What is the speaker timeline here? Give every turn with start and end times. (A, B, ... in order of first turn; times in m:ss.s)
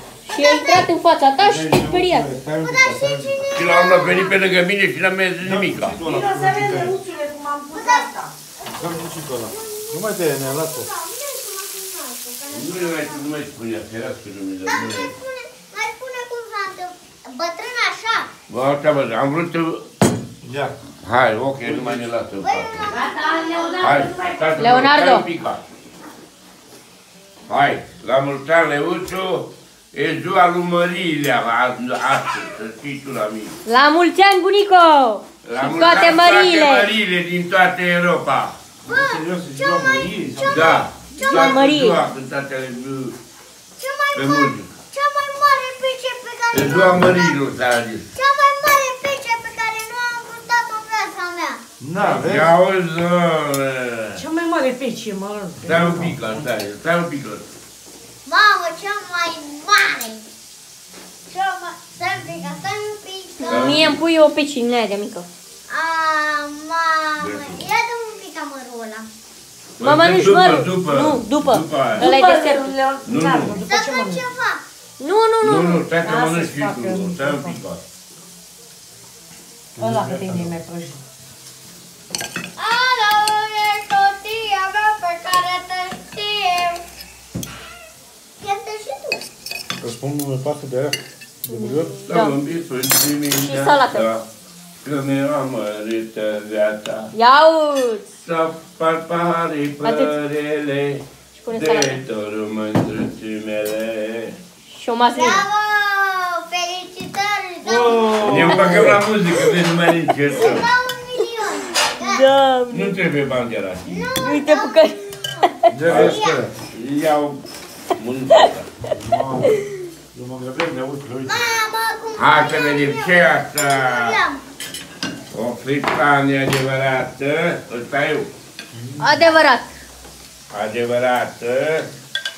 0:00.2-0:02.3 A
0:00.3-0:00.9 B
0:01.4-0:03.5 C
0:02.6-0:04.4 B
0:03.5-0:06.0 D
0:05.4-0:07.0 C
0:06.0-0:08.3 E
0:07.7-0:13.3 B
0:08.7-0:10.9 C
0:12.5-0:15.1 D
0:14.7-0:18.3 B
0:18.5-0:19.9 D
0:20.4-0:20.8 C
0:21.0-0:23.0 D
0:21.6-0:22.2 C
0:22.4-0:24.0 B
0:22.8-0:24.7 E
0:23.8-0:25.6 D
0:24.6-0:25.2 A
0:27.5-0:33.6 D
0:33.7-0:36.9 A
0:35.4-0:38.6 D
0:38.8-0:40.8 C
0:38.8-0:41.6 B
0:40.4-0:43.2 D
0:41.2-0:42.0 A
0:43.8-0:47.4 B
0:44.1-0:44.7 D
0:46.5-0:48.1 D
0:48.1-0:51.6 B
0:51.8-0:52.5 C
0:52.0-0:54.2 D
0:54.2-0:55.8 E
0:55.6-0:56.2 C
0:55.6-0:57.5 D
0:58.3-1:00.2 B
1:01.3-1:03.9 B
1:03.4-1:05.3 A
1:03.5-1:04.0 D
1:05.7-1:09.1 B
1:07.2-1:07.7 D
1:09.8-1:12.1 D
1:09.8-1:12.7 A
1:12.0-1:14.3 E
1:13.0-1:13.6 D
1:13.7-1:14.6 B
1:15.0-1:15.9 A
1:15.4-1:17.8 D
1:16.0-1:17.6 E
1:19.8-1:20.6 C
1:19.8-1:21.0 E
1:22.6-1:26.8 B
1:28.4-1:29.2 B
1:29.8-1:32.0 C
1:31.5-1:32.4 A
1:32.1-1:34.2 D
1:33.4-1:34.1 A
1:34.8-1:37.1 D
1:37.1-1:38.1 A
1:38.2-1:44.4 D
1:39.8-1:40.1 A
1:41.3-1:42.0 A
1:44.7-1:45.4 A
1:45.1-1:48.5 B
1:47.6-1:49.0 C
1:48.2-1:50.7 D
1:48.5-1:48.9 A
1:50.3-1:52.3 B
1:52.0-1:53.0 A
1:52.7-1:54.1 D
1:53.8-1:56.5 B
1:54.2-1:55.5 A
1:55.7-1:56.6 C
1:55.8-1:57.4 D
1:58.0-1:58.7 D
1:58.9-1:59.6 C
2:00.1-2:01.4 C
2:01.3-2:04.4 B
2:02.2-2:04.2 D
2:05.3-2:08.3 D
2:08.7-2:09.2 C
2:09.0-2:09.8 A
2:10.5-2:11.9 D